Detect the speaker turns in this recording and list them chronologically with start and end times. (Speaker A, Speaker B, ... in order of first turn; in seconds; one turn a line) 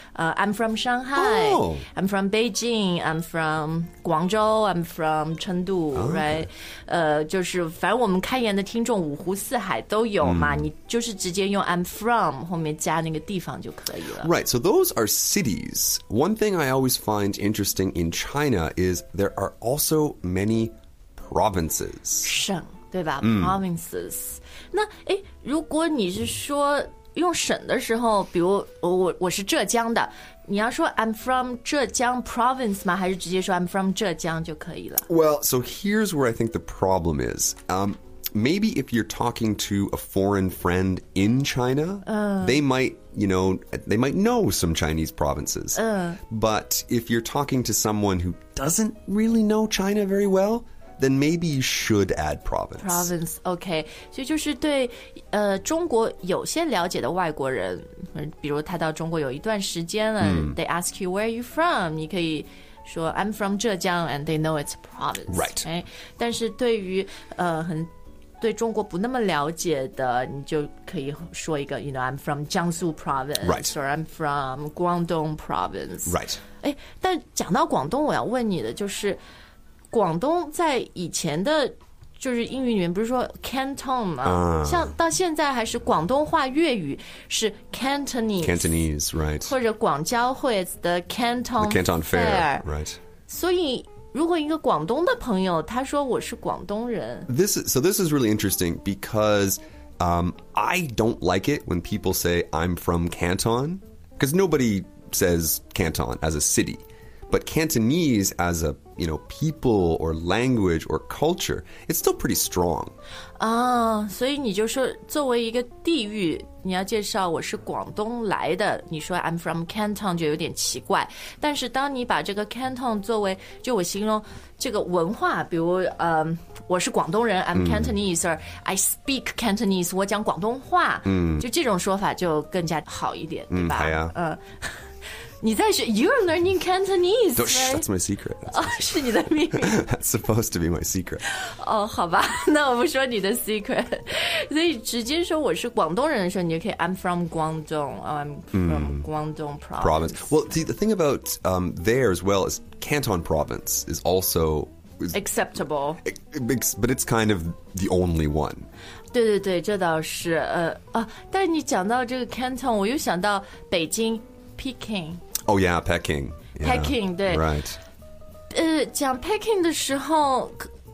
Speaker A: 0.1-14.3
Speaker B: 1.1-1.9
Speaker B: 5.9-6.5
Speaker B: 10.2-10.7
Speaker B: 14.2-22.3
Speaker A: 22.2-35.1
Speaker B: 23.2-23.6
Speaker B: 35.1-53.1
Speaker A: 42.0-42.6
Speaker A: 45.7-46.2
Speaker A: 52.8-79.2
Speaker B: 60.2-60.6
Speaker B: 65.3-65.7
Speaker B: 73.4-73.7
Speaker B: 76.1-76.4
Speaker A: 79.9-88.7
Speaker B: 84.2-85.0
Speaker B: 88.4-89.5
Speaker A: 89.4-92.7
Speaker B: 91.6-93.0
Speaker A: 93.3-97.3
Speaker B: 97.3-112.9
Speaker A: 113.4-134.7
Speaker B: 127.5-127.9
Speaker B: 131.1-131.4
Speaker B: 133.5-134.1
Speaker A: 135.4-137.9
Speaker B: 137.3-141.2
Speaker A: 138.5-139.9
Speaker A: 141.2-150.3
Speaker B: 148.5-149.1
Speaker B: 149.8-155.2
Speaker A: 155.1-156.0
Speaker B: 156.0-158.7
Speaker A: 159.1-165.2
Speaker B: 165.5-167.8
Speaker A: 166.6-167.5
Speaker A: 168.5-170.7